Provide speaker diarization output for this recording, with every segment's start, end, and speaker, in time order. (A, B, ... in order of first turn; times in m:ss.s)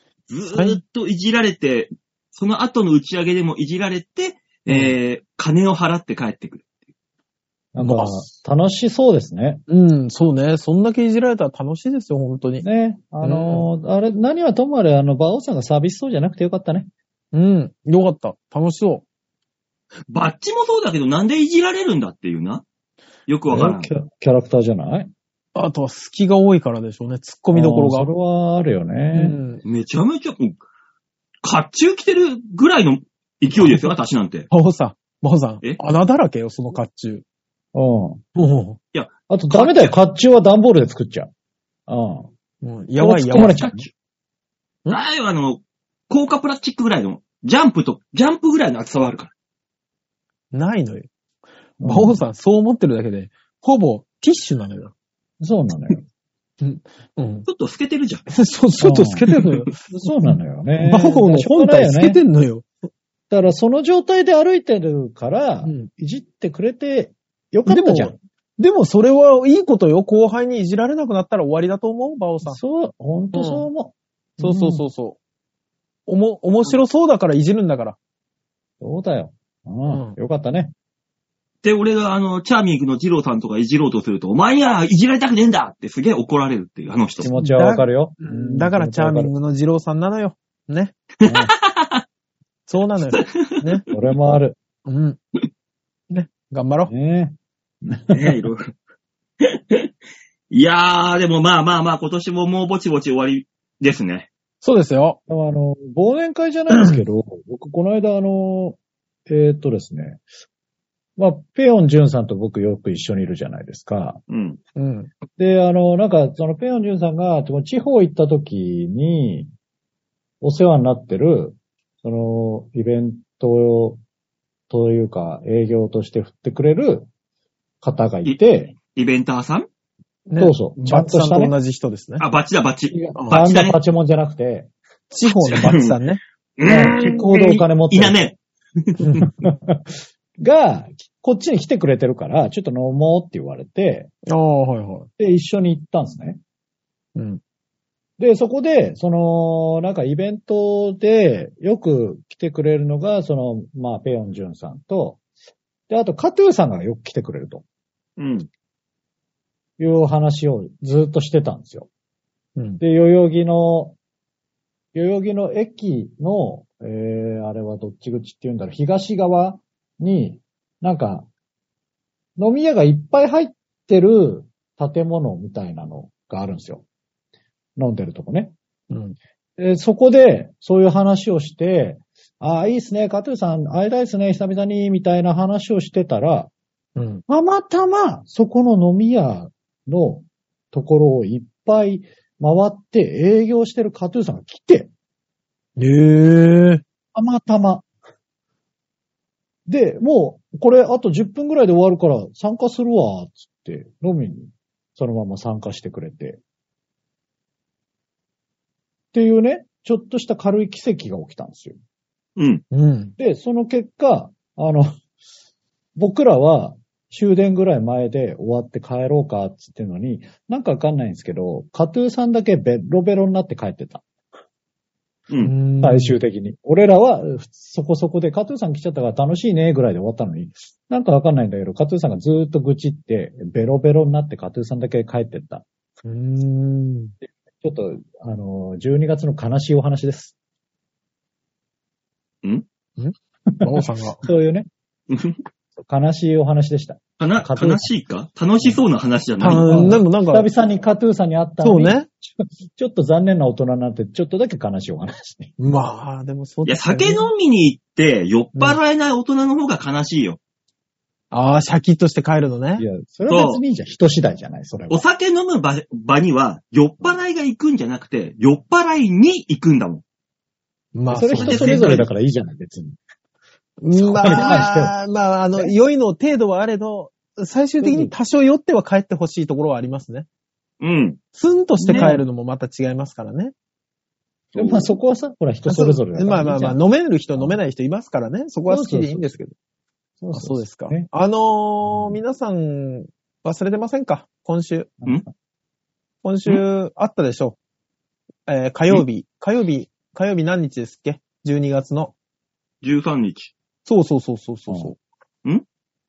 0:00.3-0:06.6 A
0:00.5-0:00.8 B
0:04.7-0:04.9 B
0:07.8-0:09.6 C
0:07.8-0:08.3 B
0:09.7-0:12.6 B
0:12.6-0:16.9 C
0:13.2-0:13.7 B
0:17.3-0:19.0 B
0:20.1-0:22.6 A
0:23.3-0:23.9 A
0:23.5-0:25.1 C
0:25.6-0:28.1 B
0:27.5-0:29.4 C
0:29.1-0:29.6 B
0:29.6-0:30.6 A
0:31.4-0:34.5 A
0:34.5-0:37.2 B
0:37.7-0:38.2 C
0:38.4-0:38.8 B
0:38.9-0:40.0 A
0:39.3-0:41.3 C
0:41.9-0:42.3 C
0:42.6-0:43.6 B
0:43.0-0:43.9 C
0:43.3-0:43.9 A
0:44.9-0:49.3 A
0:50.5-0:51.1 B
0:51.8-0:52.2 C
0:51.8-0:54.9 B
0:55.4-0:56.0 C
0:56.6-0:57.5 B
0:57.5-0:58.3 A
0:58.3-0:59.7 B
0:58.8-0:59.3 C
0:59.9-1:02.2 C
1:00.8-1:02.7 B
1:03.3-1:08.2 C
1:05.6-1:05.9 B
1:07.7-1:12.6 B
1:12.4-1:14.8 C
1:13.3-1:13.7 B
1:14.4-1:15.2 B
1:16.1-1:18.0 B
1:18.8-1:20.7 C
1:19.9-1:20.2 B
1:21.6-1:27.3 A
1:27.2-1:29.3 C
1:27.4-1:31.0 B
1:31.2-1:32.0 A
1:31.2-1:31.5 C
1:32.7-1:33.9 B
1:33.1-1:33.6 A
1:33.9-1:34.6 C
1:34.9-1:35.2 B
1:36.1-1:36.9 B
1:36.9-1:38.4 C
1:38.1-1:38.7 A
1:39.4-1:39.9 A
1:40.5-1:44.3 A
1:44.6-1:45.2 B
1:45.3-1:50.2 C
1:46.7-1:47.0 B
1:51.2-1:54.2 C
1:54.3-1:54.6 A
1:54.8-1:55.1 B
1:55.4-1:59.5 C
2:00.4-2:04.0 C
2:04.7-2:07.1 C
2:07.8-2:08.8 C
2:08.9-2:09.7 A
2:10.3-2:12.3 B
2:10.4-2:11.5 C
2:12.2-2:13.8 A
2:12.9-2:14.7 C
2:13.2-2:13.4 B
2:15.1-2:16.2 B
2:15.3-2:16.0 A
2:16.6-2:19.0 A
2:16.6-2:18.2 C
2:16.9-2:17.2 B
2:19.0-2:19.3 B
2:19.4-2:19.8 C
2:20.4-2:24.1 C
2:24.3-2:25.1 B
2:25.2-2:26.4 C
2:27.2-2:27.4 B
2:28.2-2:35.2 C
2:35.9-2:37.6 C
2:38.2-2:38.5 A
2:39.8-2:41.9 C
2:42.6-2:42.8 B
2:42.8-2:44.0 C
2:44.9-2:51.3 C
2:52.4-2:56.8 C
2:57.8-2:58.5 C
2:58.9-2:59.2 B
2:59.6-3:06.5 C
3:07.0-3:07.2 B
3:07.3-3:14.9 C
3:15.8-3:16.8 B
3:17.2-3:17.8 C
3:19.7-3:26.4 C
3:29.1-3:31.8 C
3:32.4-3:32.6 A
3:32.7-3:33.2 B
3:33.2-3:34.9 C
3:36.0-3:44.0 C
3:45.4-3:46.2 B
3:45.8-3:55.6 C
3:56.0-3:57.2 B
3:57.6-4:00.3 C
4:03.0-4:04.3 B
4:03.5-4:04.7 C
4:05.1-4:05.4 A
4:05.8-4:07.9 C
4:07.2-4:10.0 A
4:09.4-4:10.5 B
4:09.5-4:15.5 C
4:11.6-4:12.1 B
4:15.6-4:17.3 B
4:16.7-4:20.4 A
4:21.3-4:22.9 B
4:22.8-4:25.0 C
4:23.3-4:23.6 A
4:24.9-4:30.0 A
4:31.0-4:32.0 B
4:31.1-4:33.0 C
4:31.4-4:32.1 A
4:33.8-4:40.3 B
4:34.0-4:35.0 C
4:34.3-4:34.6 A
4:37.8-4:38.1 C
4:40.8-4:41.2 A
4:41.3-4:43.5 B
4:41.8-4:42.2 C
4:44.5-4:44.8 B
4:44.6-4:46.8 C
4:45.7-4:49.5 B
4:48.7-4:49.4 C
4:50.2-4:51.1 C
4:50.3-4:54.9 B
4:51.8-4:52.2 C
4:55.0-4:55.3 C
4:56.2-4:57.6 B
4:58.5-5:02.2 B
5:02.8-5:03.5 A
5:03.9-5:05.0 B